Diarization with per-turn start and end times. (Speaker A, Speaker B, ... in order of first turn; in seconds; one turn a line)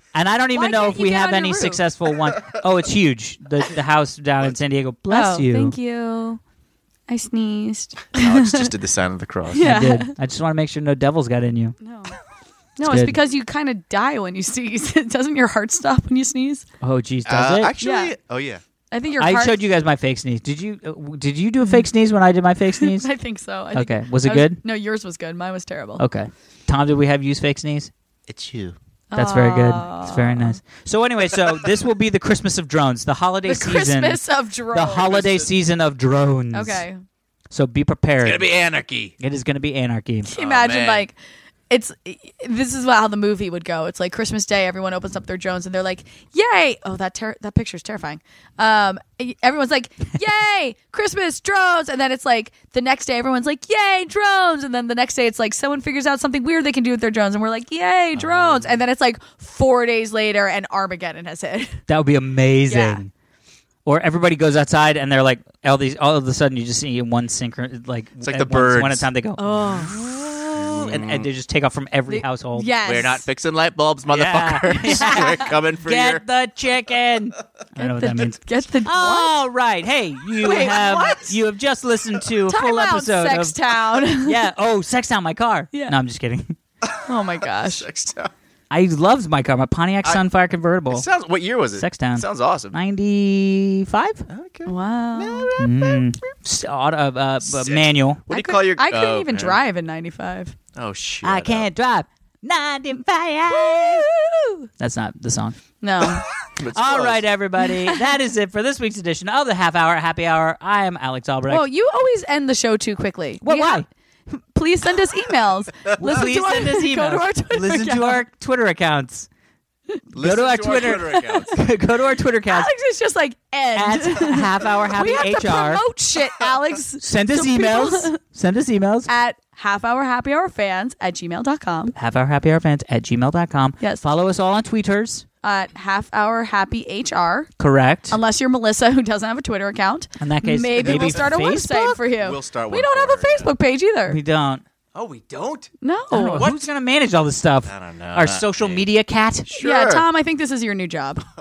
Speaker A: 0.1-5.8
Speaker B: 0.5-1.8
Speaker B: 5.1-6.4
Speaker B: 7.1-8.7
Speaker C: 8.2-9.7
Speaker B: 9.5-10.1
Speaker A: 9.6-11.8
Speaker B: 11.8-12.2
Speaker B: 12.8-16.7
Speaker A: 12.9-13.2
Speaker A: 16.8-17.7
Speaker C: 17.3-18.6
Speaker B: 17.8-18.1
Speaker B: 18.9-19.7
Speaker A: 19.2-23.1
Speaker B: 22.8-26.0
Speaker A: 23.7-24.6
Speaker A: 26.0-27.9
Speaker C: 28.3-28.8
Speaker B: 29.1-30.6
Speaker A: 29.1-36.8
Speaker B: 33.5-35.2
Speaker C: 35.0-35.5
Speaker B: 36.5-37.0
Speaker A: 37.5-38.5
Speaker C: 38.2-39.1
Speaker A: 39.2-40.3
Speaker B: 40.3-41.1
Speaker C: 40.4-41.1
Speaker B: 41.7-61.8
Speaker C: 58.2-58.8
Speaker A: 61.9-63.1
Speaker B: 62.7-63.0
Speaker A: 63.9-72.7
Speaker C: 68.2-69.1
Speaker B: 69.4-70.0
Speaker C: 69.9-71.3
Speaker B: 72.1-73.2
Speaker C: 72.8-76.2
Speaker A: 74.1-86.6
Speaker B: 74.8-75.5
Speaker B: 77.8-79.4
Speaker B: 80.4-81.2
Speaker C: 80.4-81.3
Speaker B: 82.5-84.4
Speaker C: 86.9-88.3
Speaker B: 87.0-87.9
Speaker A: 88.7-91.1
Speaker C: 90.9-92.8
Speaker A: 91.8-94.2
Speaker C: 94.3-96.3
Speaker B: 94.7-95.5
Speaker A: 95.6-98.2
Speaker C: 97.4-99.6
Speaker B: 98.3-100.6
Speaker C: 100.8-101.7
Speaker A: 101.2-104.1
Speaker B: 103.5-104.7
Speaker A: 104.8-105.6
Speaker B: 105.8-106.3
Speaker C: 106.6-107.2
Speaker A: 106.7-111.7
Speaker B: 107.7-108.0
Speaker B: 111.5-118.2
Speaker A: 113.4-113.9
Speaker A: 116.0-119.3
Speaker C: 120.1-121.6
Speaker A: 120.2-122.7
Speaker B: 121.0-121.5
Speaker B: 122.5-128.2
Speaker A: 123.8-125.8
Speaker A: 127.0-129.1
Speaker B: 129.1-131.9
Speaker A: 131.9-135.2
Speaker B: 133.8-134.1
Speaker B: 135.4-137.5
Speaker A: 137.6-138.2
Speaker B: 138.1-144.2
Speaker A: 140.2-142.0
Speaker C: 140.8-141.3
Speaker C: 142.2-143.5
Speaker A: 144.1-144.6
Speaker C: 144.9-145.7
Speaker B: 145.8-146.6
Speaker A: 146.1-149.5
Speaker C: 147.7-148.8
Speaker C: 149.4-150.1
Speaker B: 149.6-151.2